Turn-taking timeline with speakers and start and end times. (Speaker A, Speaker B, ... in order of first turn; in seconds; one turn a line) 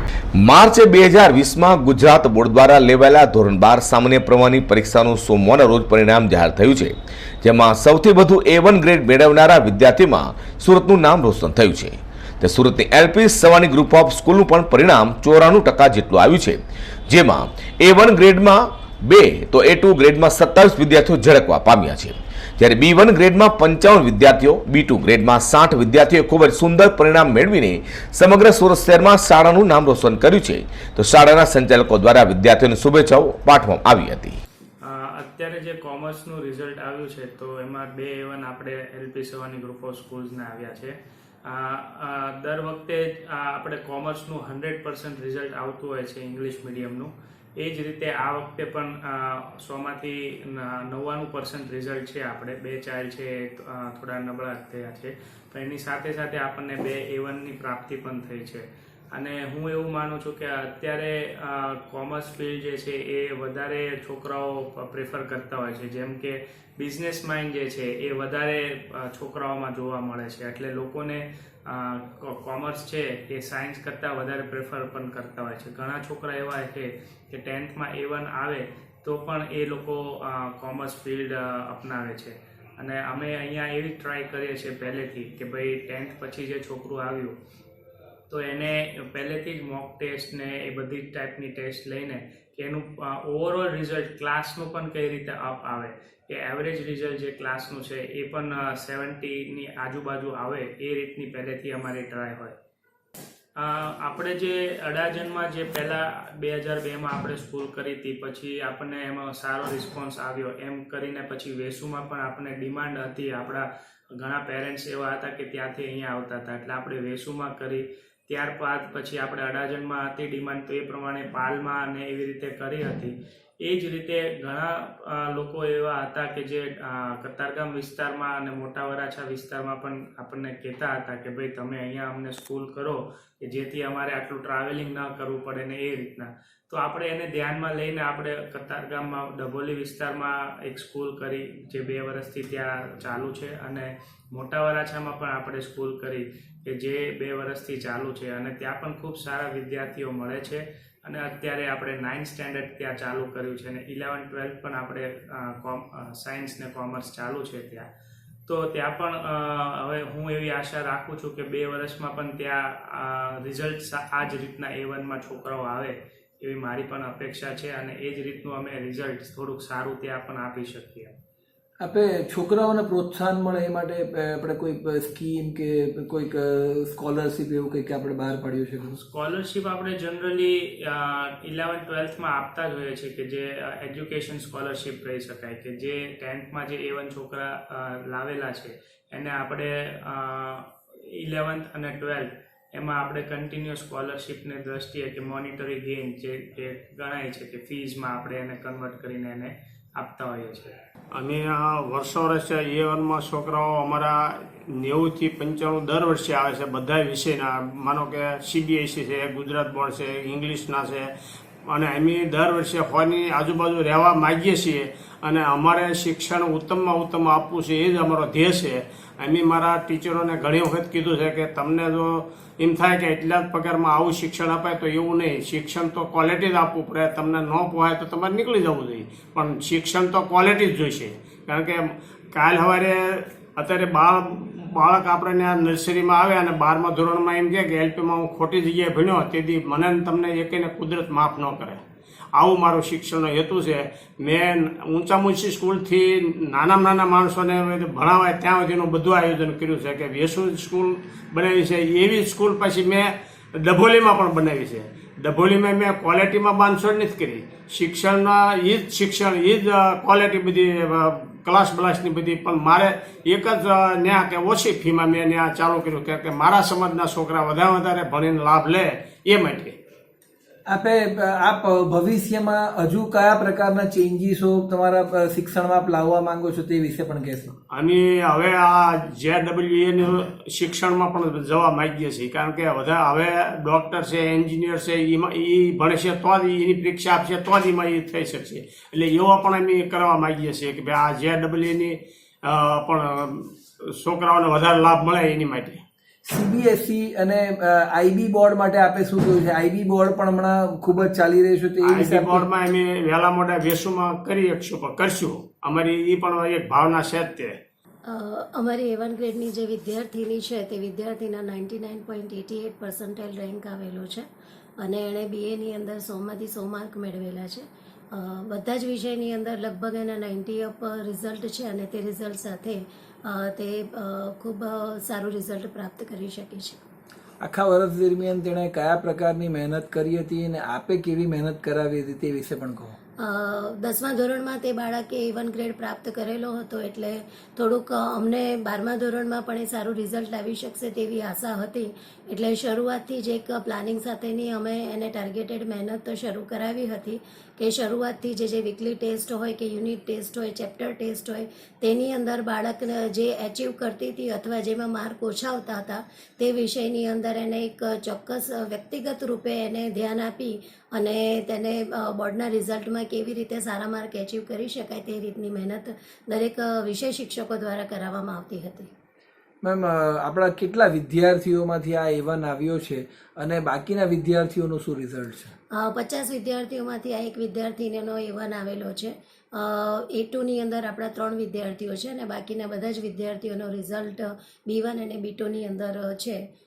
Speaker A: 0.4-34.4
Speaker B: 34.8-40.9
Speaker B: 41.4-87.3
Speaker B: 88.3-102.5
Speaker B: 103.6-113.7
Speaker B: 114.2-157.8
Speaker B: 158.5-171.1
Speaker C: 171.8-179.0
Speaker B: 179.0-200.7
Speaker D: 201.1-211.1
Speaker D: 211.7-241.8
Speaker D: 242.3-269.8
Speaker C: 270.7-277.5
Speaker D: 277.7-295.8
Speaker C: 296.2-302.4
Speaker D: 301.8-307.6
Speaker E: 308.6-309.0
Speaker E: 309.6-310.4
Speaker E: 311.2-314.2
Speaker E: 314.8-317.5
Speaker E: 319.0-321.3
Speaker E: 321.9-322.4
Speaker E: 325.2-325.8
Speaker C: 327.4-332.9
Speaker E: 333.2-351.1
Speaker E: 351.9-352.7
Speaker E: 353.3-354.3
Speaker E: 355.1-355.4
Speaker E: 356.4-360.5
Speaker E: 361.0-368.8
Speaker C: 369.6-375.5
Speaker E: 375.9-379.0
Speaker E: 380.3-384.1
Speaker E: 384.7-386.4